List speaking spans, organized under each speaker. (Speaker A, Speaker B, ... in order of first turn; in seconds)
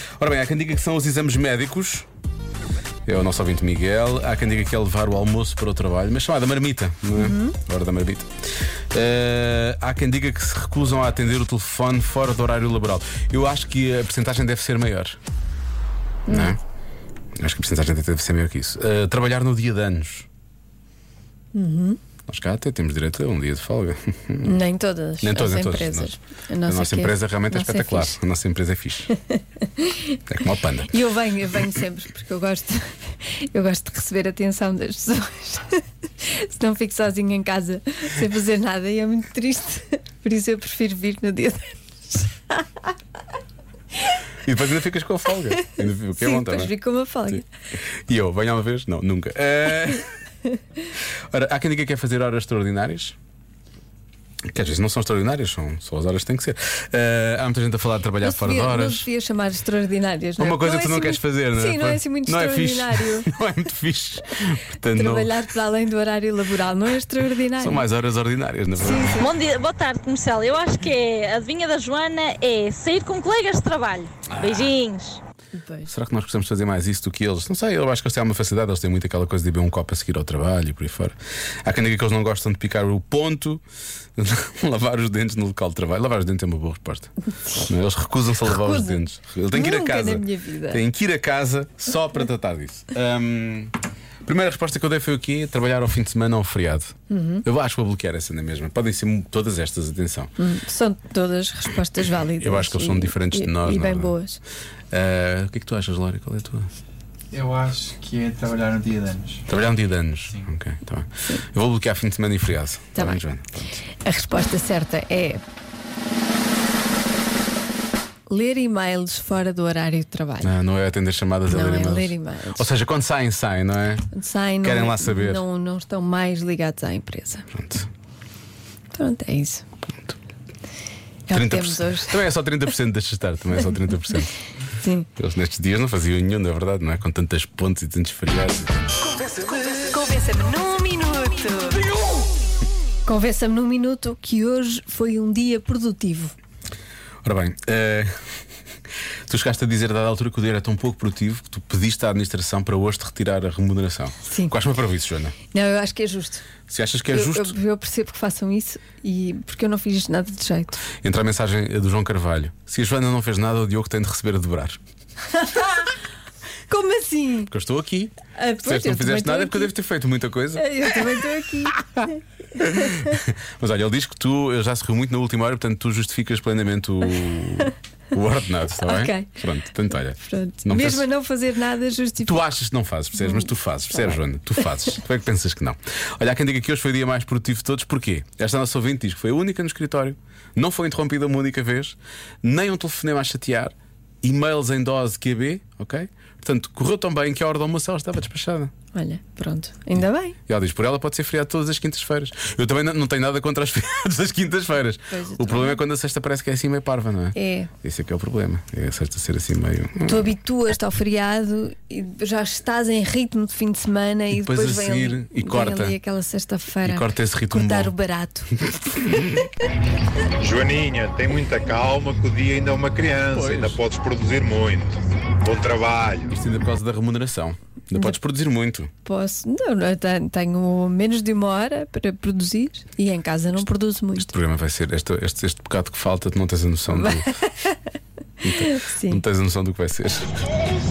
Speaker A: 0.2-2.1, 3.0-8.3, 8.9-15.2, 16.3-16.6, 17.4-20.3, 22.3-24.6, 25.2-26.1, 26.6-29.1, 30.3-30.9, 44.5-46.7, 47.9-50.1, 51.3-53.1, 54.5-59.1, 60.4-65.4, 67.6-69.3, 74.3-74.7, 75.9-83.6, 84.2-100.3, 102.4-104.2, 104.9-106.7, 109.5-113.6, 120.4-124.1, 124.6-125.4, 127.5-127.9, 131.3-134.3, 135.2-138.8, 147.2-148.1, 149.3-155.3, 156.7-157.5, 161.0-164.8, 167.5-171.2, 172.6-181.1, 182.2-198.7, 199.9-210.3, 214.3-215.9, 216.8-217.9, 218.8-219.4, 223.3-223.8, 226.3-228.9, 234.1-237.3, 238.4-240.4
Speaker B: 7.2-7.6, 16.3-16.6, 21.5-22.0, 24.4-28.1, 29.8-30.2, 30.9-42.6, 46.1-47.4, 58.2-63.3, 64.9-67.8, 68.8-69.3, 75.5-75.9, 88.5-90.8, 97.1-97.4, 100.4-104.4, 114.0-115.4, 118.3-120.5, 121.5-122.7, 124.1-127.5, 128.9-129.6, 131.3-132.2, 134.8-135.1, 139.7-141.8, 143.0-146.3, 154.3-154.6, 155.5-156.4, 157.1-160.8, 165.3-165.8, 166.7-167.5, 168.3-169.7, 170.6-171.8, 178.8-179.4, 180.1-182.4, 183.2-184.2, 198.9-200.3, 205.1-205.8, 207.3-207.7, 210.1-219.0, 229.0-234.3, 236.9-237.8, 238.6-239.2
Speaker C: 69.1-75.2
Speaker D: 107.3-109.4
Speaker E: 220.4-226.3